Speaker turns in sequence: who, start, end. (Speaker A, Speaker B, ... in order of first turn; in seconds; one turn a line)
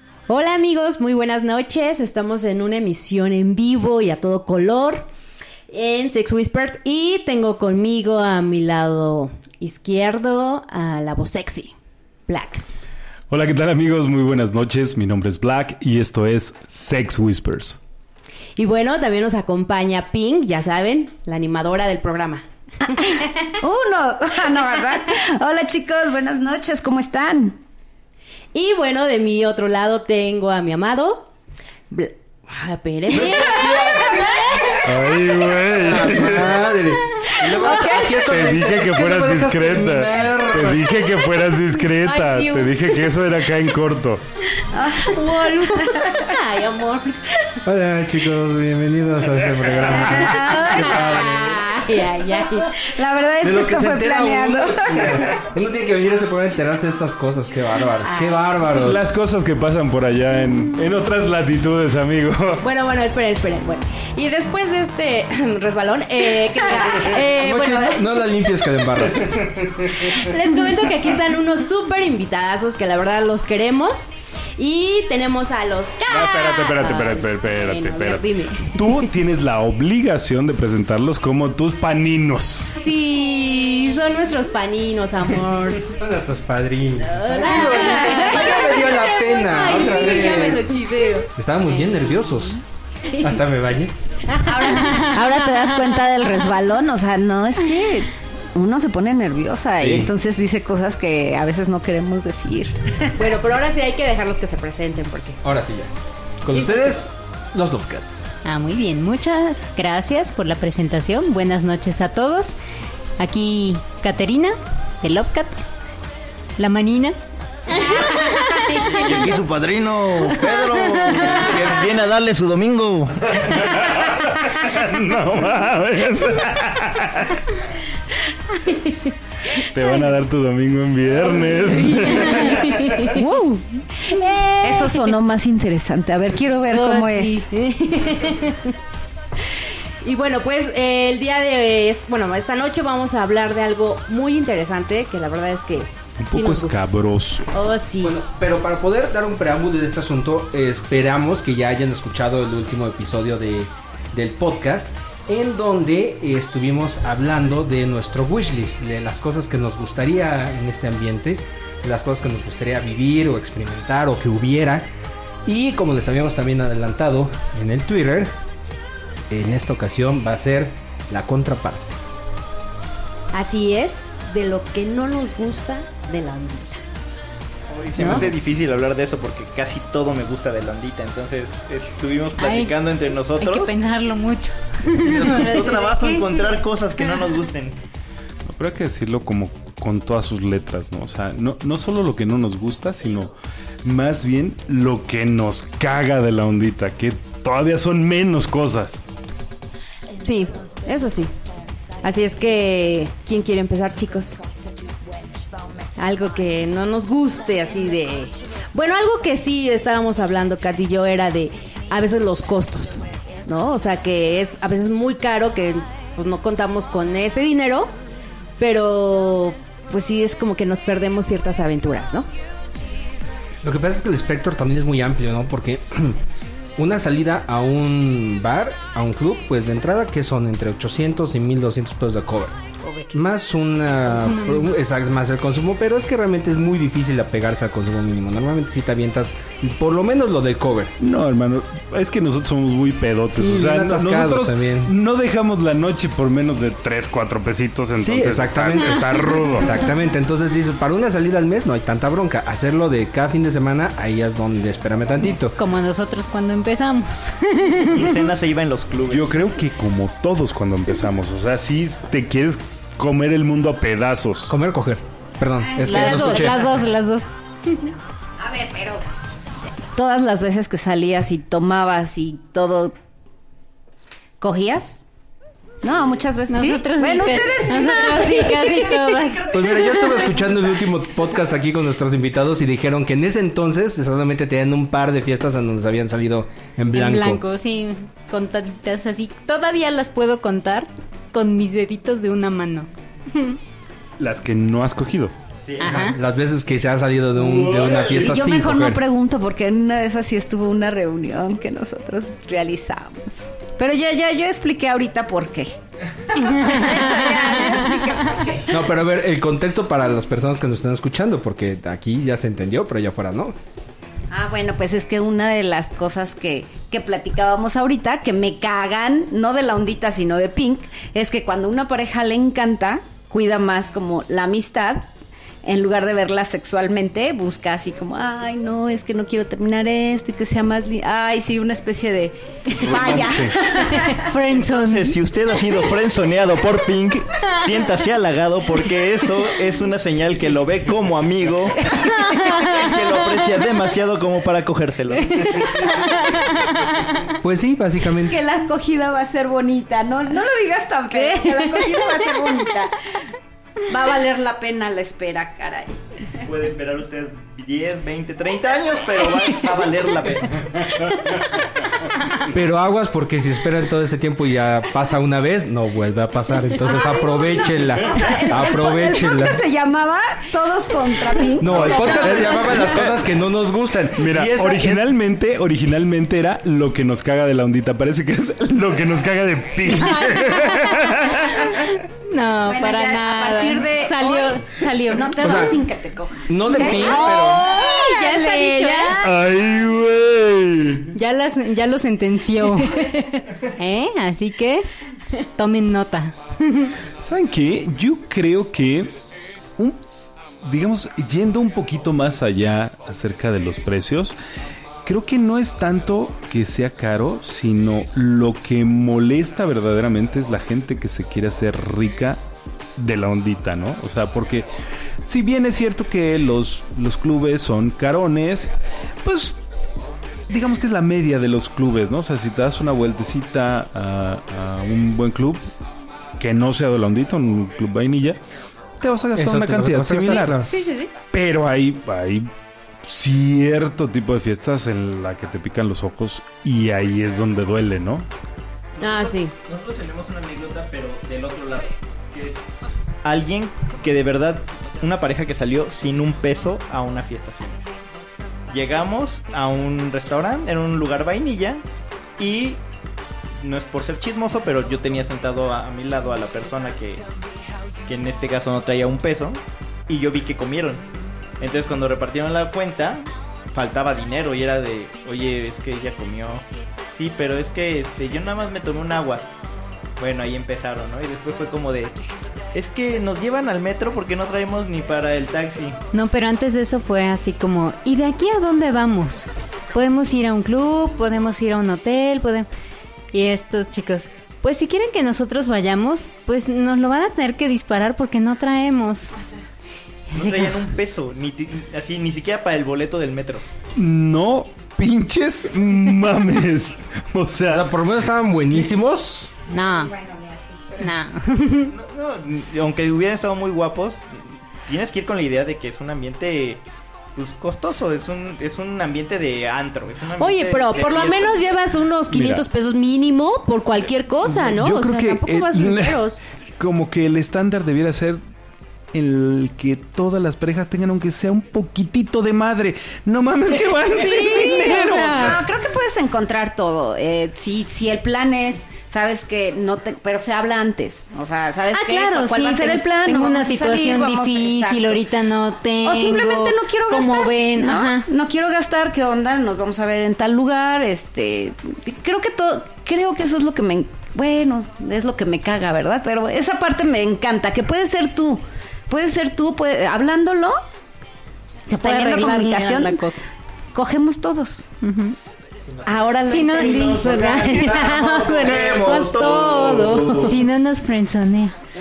Speaker A: 0.3-5.1
Speaker A: 5.7-11.7
Speaker A: 12.3-12.6
Speaker B: 13.3-17.8
Speaker A: 18.6-22.4
Speaker C: 23.0-27.6
Speaker A: 28.5-31.3
Speaker A: 31.9-35.1
Speaker D: 33.1-34.2
Speaker B: 34.8-36.7
Speaker D: 35.8-40.9
Speaker A: 37.4-38.2
Speaker B: 38.2-44.2
Speaker A: 41.8-43.1
Speaker C: 44.7-46.2
Speaker A: 44.9-47.3
Speaker D: 47.6-51.3
Speaker C: 50.1-50.7
Speaker A: 50.2-52.9
Speaker B: 50.4-51.3
Speaker C: 52.7-55.3
Speaker D: 53.4-59.0
Speaker A: 58.0-58.5
Speaker B: 58.7-62.6
Speaker A: 62.6-68.1
Speaker D: 67.3-69.4
Speaker B: 69.1-70.2
Speaker A: 70.0-74.0
Speaker A: 74.6-79.1
Speaker B: 76.1-82.7
Speaker A: 82.8-85.9
Speaker D: 86.0-90.7
Speaker A: 87.1-91.3
Speaker C: 88.1-88.4
Speaker D: 91.4-92.6
Speaker D: 93.1-93.9
Speaker A: 94.2-95.9
Speaker C: 95.1-103.1
Speaker D: 99.8-100.1
Speaker A: 103.1-105.4
Speaker D: 105.4-105.9
Speaker D: 106.4-108.3
Speaker A: 106.5-107.0
Speaker E: 108.4-112.6
Speaker E: 113.2-115.7
Speaker E: 116.6-117.2
Speaker A: 117.8-119.3
Speaker E: 118.0-119.1
Speaker F: 119.0-123.5
Speaker B: 123.5-127.4
Speaker B: 129.7-133.1
Speaker A: 131.8-135.1
Speaker C: 134.6-137.5
Speaker A: 136.7-138.7
Speaker A: 140.0-146.8
Speaker B: 146.2-147.5
Speaker A: 147.5-148.2
Speaker D: 148.0-164.9
Speaker D: 165.4-168.3
Speaker D: 169.3-171.9
Speaker A: 173.3-176.8
Speaker F: 177.7-183.7
Speaker A: 178.0-178.3
Speaker E: 182.4-182.7
Speaker E: 183.4-187.2
Speaker F: 184.9-187.7
Speaker B: 188.5-193.3
Speaker B: 193.8-199.0
Speaker A: 200.2-201.3
Speaker A: 202.0-204.4
Speaker A: 206.0-217.9
Speaker A: 218.6-222.3
Speaker D: 223.6-226.2
Speaker D: 226.8-232.6
Speaker D: 233.1-240.9
Speaker B: 241.0-249.7
Speaker D: 243.3-244.9
Speaker D: 248.0-255.6
Speaker E: 255.6-258.1
Speaker F: 257.8-259.4
Speaker B: 259.1-264.5
Speaker D: 264.5-266.7
Speaker C: 265.6-266.6
Speaker E: 265.8-267.9
Speaker C: 268.4-269.1
Speaker C: 269.7-272.9
Speaker C: 274.4-275.0
Speaker C: 275.8-280.5
Speaker E: 276.5-280.1
Speaker D: 279.5-287.4
Speaker E: 286.9-293.6
Speaker B: 294.2-295.3
Speaker F: 295.6-296.1
Speaker E: 295.8-296.2
Speaker D: 295.9-299.0
Speaker F: 297.4-298.2
Speaker C: 298.1-305.8
Speaker C: 306.3-308.8
Speaker D: 308.7-313.5
Speaker C: 314.3-325.1
Speaker C: 325.6-334.3
Speaker B: 332.8-333.5
Speaker F: 332.9-333.1
Speaker E: 334.1-335.1
Speaker A: 334.3-335.1
Speaker F: 334.4-346.1
Speaker D: 347.4-348.4
Speaker C: 348.2-352.9
Speaker C: 353.9-356.0
Speaker F: 356.4-361.4
Speaker D: 362.5-369.6
Speaker C: 368.0-372.8
Speaker D: 371.6-375.0
Speaker B: 371.7-373.3
Speaker B: 374.2-381.9
Speaker E: 380.2-381.3
Speaker E: 382.2-385.3
Speaker C: 382.6-389.2
Speaker D: 385.4-385.8
Speaker D: 386.5-387.6
Speaker A: 386.8-389.2
Speaker E: 387.4-389.2
Speaker B: 389.2-391.1
Speaker E: 391.1-393.1
Speaker E: 393.8-394.9
Speaker E: 395.6-396.9
Speaker B: 397.2-399.1
Speaker B: 400.6-404.4
Speaker B: 405.0-412.4
Speaker B: 413.0-414.7
Speaker B: 415.2-418.7
Speaker B: 419.2-419.6
Speaker B: 420.5-425.6
Speaker B: 426.4-428.4
Speaker B: 429.0-430.6
Speaker D: 429.3-430.7
Speaker A: 430.7-431.1
Speaker B: 431.3-432.5
Speaker B: 433.0-438.3
Speaker A: 439.0-439.5
Speaker F: 439.0-442.6
Speaker F: 443.2-447.8
Speaker F: 448.7-451.8
Speaker F: 452.4-452.8
Speaker F: 453.6-457.2
Speaker F: 458.1-461.0
Speaker F: 461.6-466.6
Speaker F: 467.1-469.4
Speaker F: 470.2-472.1
Speaker F: 472.7-476.0
Speaker E: 476.1-482.7
Speaker E: 483.3-489.3
Speaker E: 490.3-490.8
Speaker F: 490.3-493.6
Speaker B: 493.9-497.9
Speaker D: 497.7-499.5
Speaker E: 499.7-500.1
Speaker C: 500.2-500.8
Speaker E: 500.9-501.9
Speaker F: 501.9-504.3
Speaker F: 504.9-506.8
Speaker F: 507.4-511.9
Speaker A: 510.4-516.4
Speaker B: 512.3-512.6
Speaker B: 514.4-518.4
Speaker B: 519.1-525.6
Speaker C: 524.1-535.2
Speaker E: 531.9-538.3
Speaker C: 536.0-550.8
Speaker E: 551.9-553.4
Speaker C: 552.0-553.4
Speaker C: 553.9-554.9
Speaker E: 555.0-555.4
Speaker F: 555.9-556.3
Speaker C: 556.0-560.5
Speaker E: 556.5-557.1
Speaker A: 556.7-558.8
Speaker F: 556.9-560.5
Speaker E: 560.3-561.7